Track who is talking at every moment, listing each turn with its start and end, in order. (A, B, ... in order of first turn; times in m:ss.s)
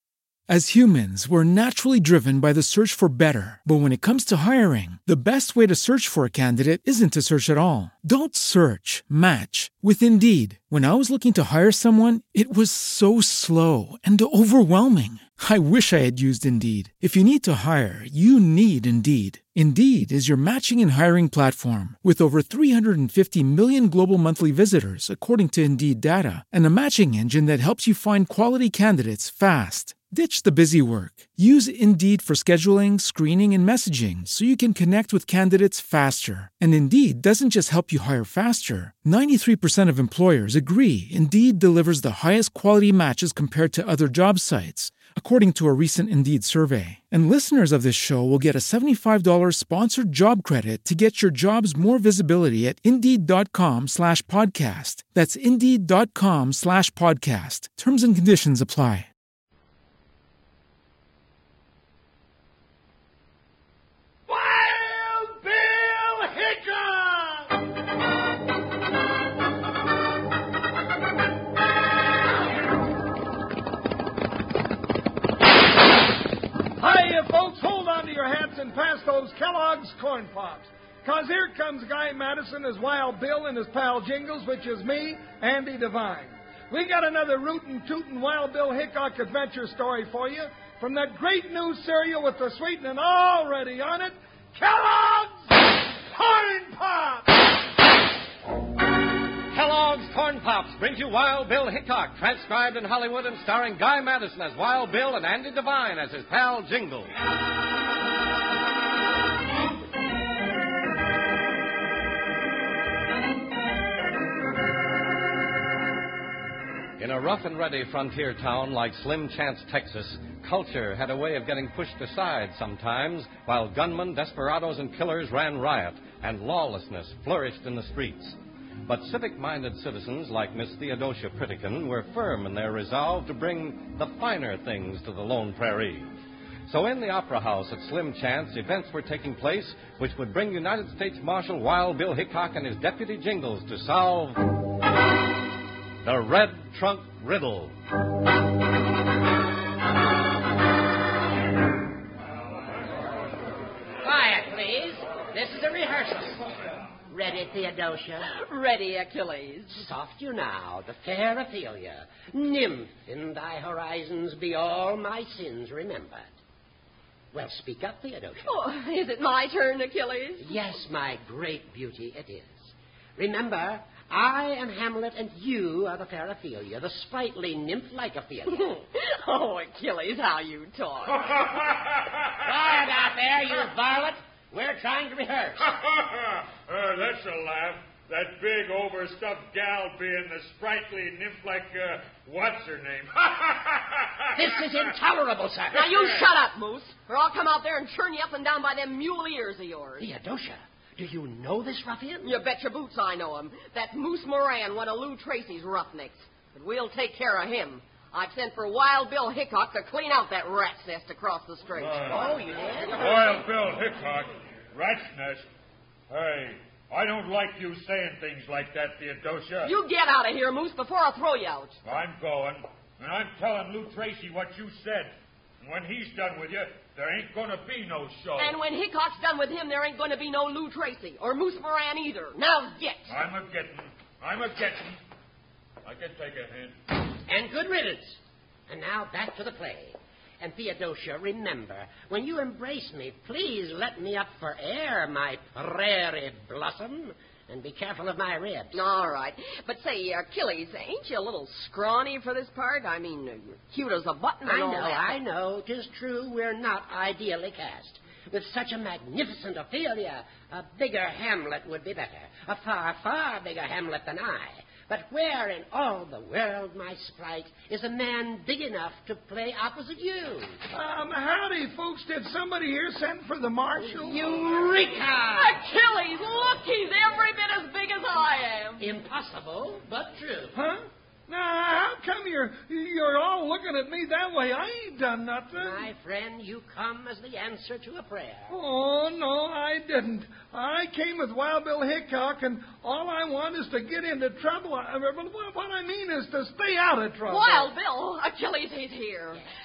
0:00.5-0:59.1 A
1:04.3-1:07.5 B
1:16.8-1:37.3 B
1:39.5-1:47.1 C
1:57.0-2:16.1 C
2:16.6-2:24.4 C
2:26.0-2:27.8 C
2:34.0-2:38.2 D
2:38.2-2:39.8 E
2:39.7-2:46.3 D
2:47.3-2:48.6 D
2:48.4-2:50.5 E
2:50.4-2:58.7 D
2:58.6-3:01.4 E
3:01.3-3:02.2 F
3:02.4-3:05.6 D
3:05.7-3:14.6 F
3:14.4-3:16.0 D
3:15.7-3:20.1 E
3:20.0-3:22.3 D
3:22.2-3:32.2 E
3:31.8-3:32.2 F
3:32.1-3:33.4 D
3:33.0-3:35.4 F
3:36.1-3:39.7 F
3:39.6-3:41.8 E
3:41.8-3:48.6 F
3:48.4-3:53.1 E
3:53.1-3:55.0 F
3:55.8-3:56.8 F
3:57.3-4:08.8 D
4:08.7-4:15.2 E
4:14.4-4:30.6 D
4:30.7-4:34.3 B
4:33.8-4:35.6 D
4:35.3-4:38.8 E
4:38.8-4:40.6 D
4:40.5-4:45.9 B
4:45.6-4:48.5 D
4:48.5-4:57.7 B
4:57.3-4:59.4 E